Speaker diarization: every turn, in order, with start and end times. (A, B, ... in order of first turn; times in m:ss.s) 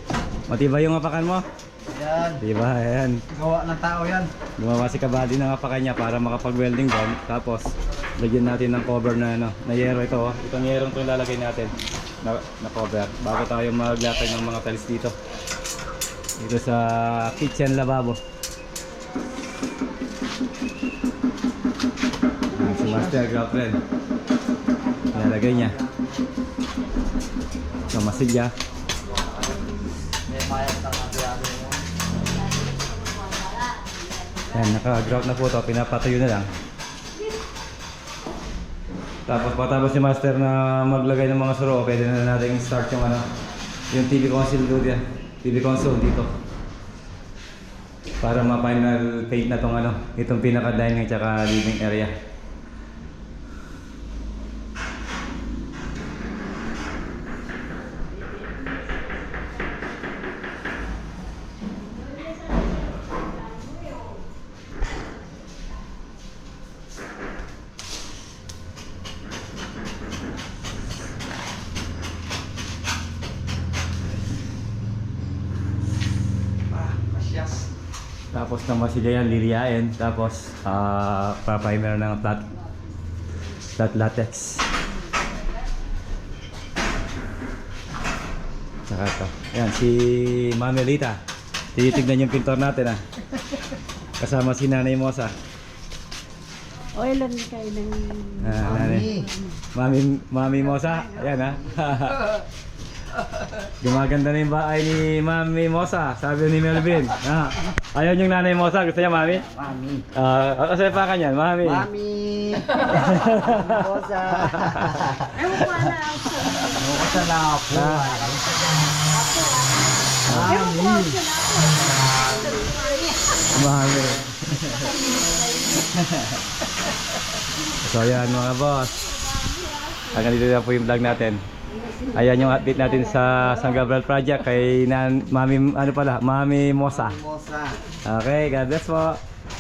0:00.5-0:01.5 A
0:01.9-0:02.4 B
0:02.4-0:03.2 A
0:03.3-0:04.3 B
0:04.6-0:15.2 A
0:16.4-0:18.2 A
0:22.5-0:23.8 A
0:25.1-0:25.8 A
0:25.1-0:26.2 B
0:27.9-0:28.5 A
0:29.0-0:29.6 B
0:30.3-0:31.8 B
0:32.4-0:34.4 C
0:34.5-0:36.5 A
0:39.3-0:43.3 A
0:43.9-0:46.3 A
0:48.2-0:52.1 A
1:16.7-1:17.6 B
1:18.3-1:22.5 A
1:23.8-1:24.7 A
1:28.9-1:31.2 A
1:31.8-1:33.0 A
1:34.2-1:35.3 A
1:37.0-1:38.5 C
1:38.4-1:39.1 A
1:38.6-1:39.3 B
1:39.8-1:42.4 A
1:43.6-1:49.5 A
1:49.4-1:50.1 B
1:50.1-1:51.9 A
1:51.6-1:55.3 B
1:52.9-1:53.8 A
1:54.6-1:55.8 A
1:55.4-1:57.3 C
1:56.6-1:58.4 B
1:57.7-1:58.3 A
1:58.1-2:03.5 C
2:00.2-2:00.9 A
2:03.5-2:04.8 A
2:04.5-2:06.1 C
2:07.8-2:09.1 A
2:09.2-2:10.1 C
2:10.1-2:11.4 A
2:12.1-2:17.2 A
2:16.9-2:17.8 B
2:18.0-2:19.2 A